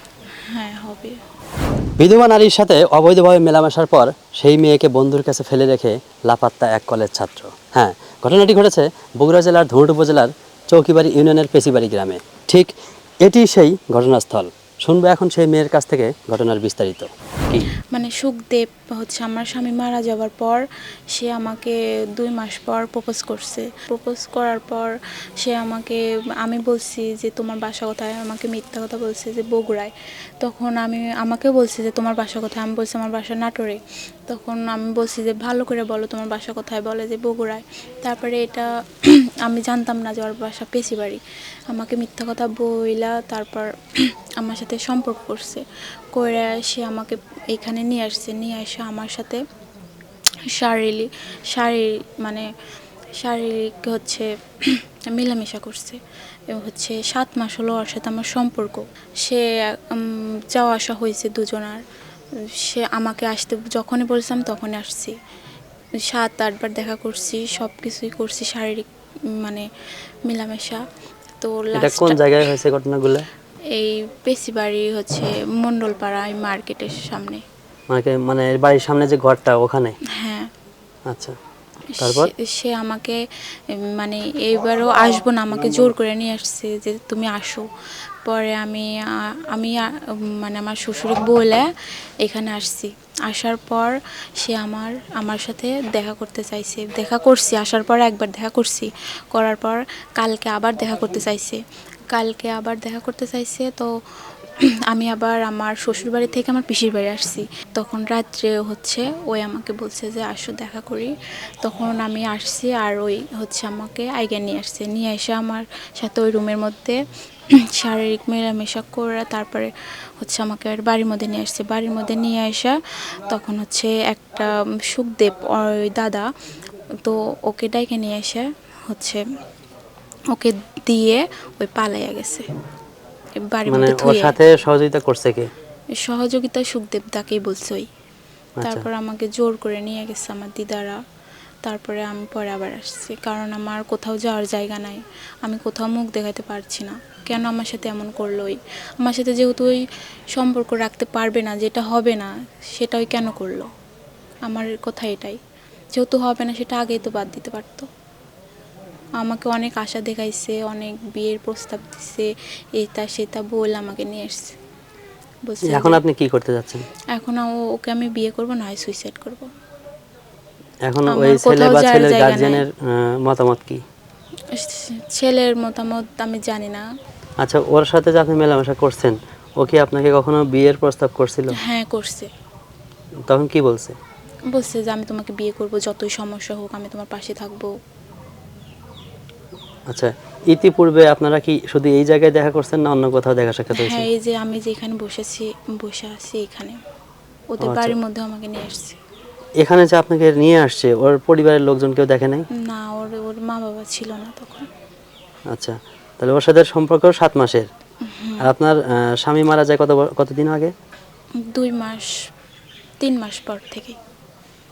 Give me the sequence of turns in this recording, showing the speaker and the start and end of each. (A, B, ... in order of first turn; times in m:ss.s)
0:00.5-0:01.1 A
0:02.0-0:12.7 B
0:13.2-0:17.7 B
0:17.9-0:20.6 A
0:21.1-0:49.4 A
0:50.5-0:52.4 A
0:53.2-0:56.0 A
0:56.5-1:01.8 A
1:02.6-1:05.2 A
1:06.1-1:08.9 A
1:10.3-1:10.8 A
1:11.4-1:12.3 A
1:11.7-1:13.2 B
1:13.7-1:17.4 A
1:17.9-1:19.9 B
1:20.2-1:20.5 A
1:21.1-1:21.4 B
1:22.0-1:22.3 B
1:22.0-1:23.2 A
1:24.0-1:27.6 A
1:28.2-1:28.9 A
1:29.5-1:29.8 A
1:30.4-1:31.7 A
1:32.2-1:41.6 A
1:42.1-1:43.9 A
1:44.9-1:57.0 A
1:57.8-2:02.8 A
2:03.3-2:06.2 A
2:07.0-2:09.2 A
2:10.3-2:12.4 A
2:13.4-2:14.3 A
2:13.7-2:15.5 B
2:16.0-2:17.9 A
2:18.6-2:18.8 B
2:18.6-2:21.0 A
2:21.6-2:29.8 A
2:30.3-2:33.7 A
2:34.5-2:35.4 A
2:35.9-2:37.9 A
2:39.2-2:42.3 A
2:42.8-2:44.5 A
2:45.5-2:46.0 A
2:45.7-2:46.8 B
2:47.1-2:49.5 A
2:50.8-2:53.8 B
2:51.1-2:52.6 A
2:54.5-2:56.8 A
2:57.4-3:01.5 B
3:01.6-3:02.3 A
3:03.3-3:04.0 B
3:04.5-3:07.7 A
3:09.9-3:14.0 B
3:13.8-3:16.7 A
3:17.5-3:19.0 A
3:17.6-3:17.9 B
3:19.6-3:22.4 B
3:22.6-3:24.7 A
3:25.5-3:27.7 B
3:28.1-3:28.4 A
3:28.4-3:30.7 B
3:31.5-3:32.1 A
3:33.0-3:34.0 A